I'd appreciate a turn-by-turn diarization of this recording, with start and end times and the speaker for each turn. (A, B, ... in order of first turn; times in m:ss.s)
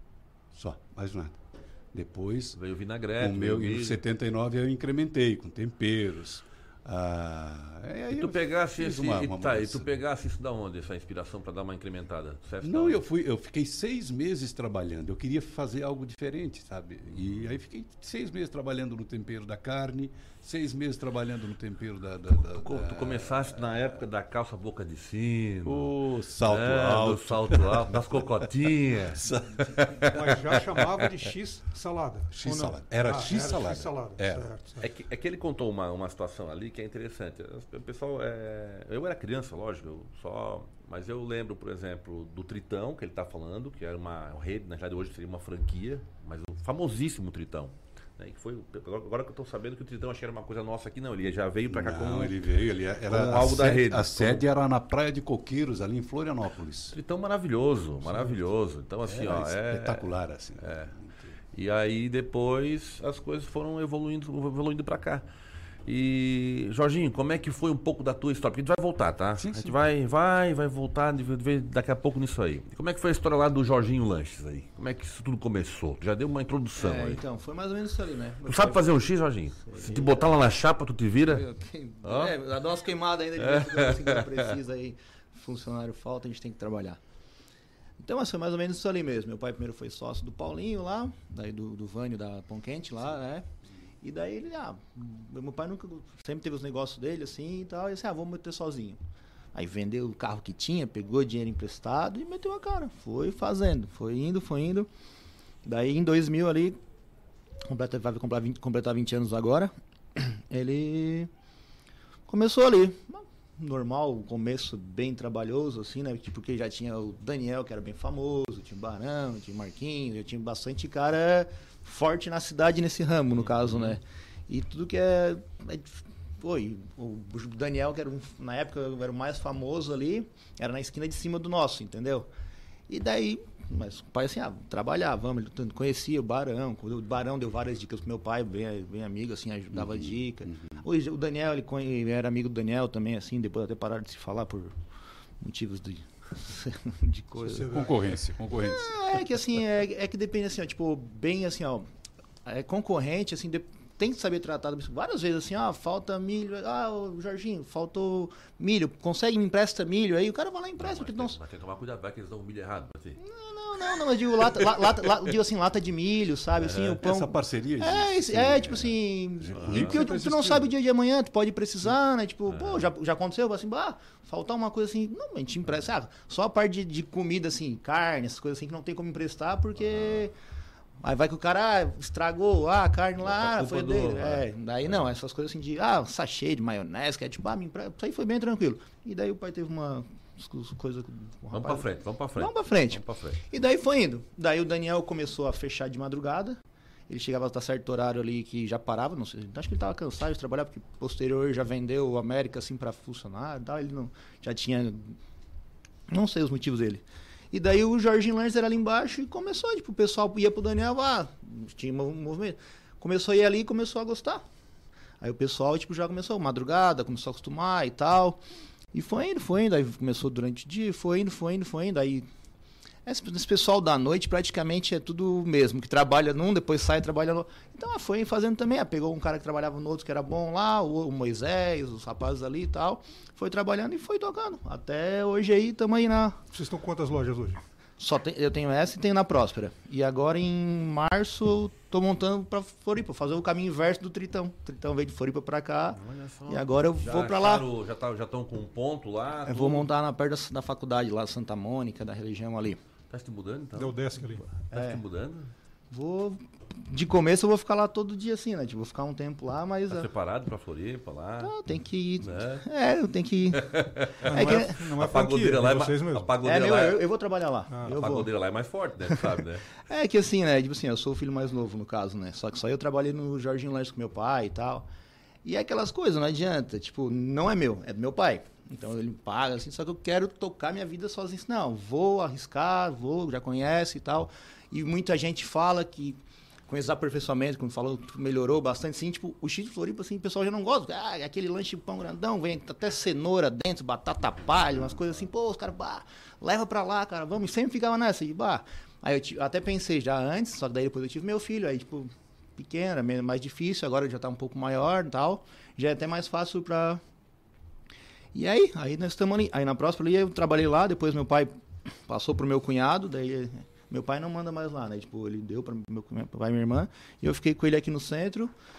0:00.5-0:01.4 A
0:01.9-0:02.6 A
0:02.5-0:04.0 B
0:03.2-0:09.9 A
0:08.1-0:13.0 B
0:12.6-0:23.6 A
0:17.1-0:17.6 B
0:22.3-0:31.0 B
0:25.6-0:29.7 A
0:30.1-0:34.8 C
0:32.3-0:34.5 A
0:34.8-0:52.4 B
0:51.7-0:57.0 A
0:53.0-0:54.4 B
0:56.9-1:00.1 B
0:58.0-0:58.5 A
0:59.0-1:01.3 A
1:00.6-1:00.9 B
1:01.5-1:05.2 B
1:05.8-1:17.2 B
1:09.4-1:09.7 A
1:16.8-1:18.9 D
1:18.4-1:21.4 B
1:19.6-1:20.3 D
1:21.3-1:27.0 D
1:22.0-1:22.3 B
1:23.4-1:24.4 B
1:28.0-1:33.4 D
1:34.0-1:39.0 D
1:39.5-1:44.9 D
1:45.6-1:46.8 D
1:47.7-1:51.3 D
1:52.3-2:12.3 D
2:03.3-2:04.0 B
2:12.9-2:24.8 D
2:19.7-2:20.8 A
2:25.4-2:27.7 D
2:27.4-2:28.0 C
2:27.7-2:29.2 A
2:28.5-2:31.9 D
2:32.4-2:41.4 D
2:40.8-2:43.2 B
2:43.2-3:00.3 D
2:46.6-2:50.1 A
2:46.7-2:47.0 B
2:49.6-2:49.9 B
2:49.8-2:50.7 C
2:52.5-2:52.9 B
2:59.9-3:00.2 B
3:01.0-3:25.2 D
3:03.2-3:05.0 B
3:11.5-3:13.4 B
3:26.1-3:34.4 D
3:35.2-3:38.4 D
3:38.9-3:42.3 D
3:43.0-3:56.4 D
3:56.5-3:57.6 C
3:58.0-4:07.6 D
4:05.9-4:09.9 B
4:09.5-4:12.8 D
4:13.1-4:15.5 B
4:13.8-4:14.4 C
4:14.7-4:15.0 D
4:15.9-4:20.0 D
4:19.9-4:21.5 B
4:21.4-4:23.7 D
4:22.2-4:22.6 B
4:23.6-4:27.0 B
4:24.2-4:24.8 D
4:24.2-4:26.3 C
4:26.4-4:28.3 D
4:27.7-4:28.0 C
4:27.9-4:29.7 B
4:29.8-4:34.9 D
4:35.4-5:07.0 D
5:08.3-5:18.5 D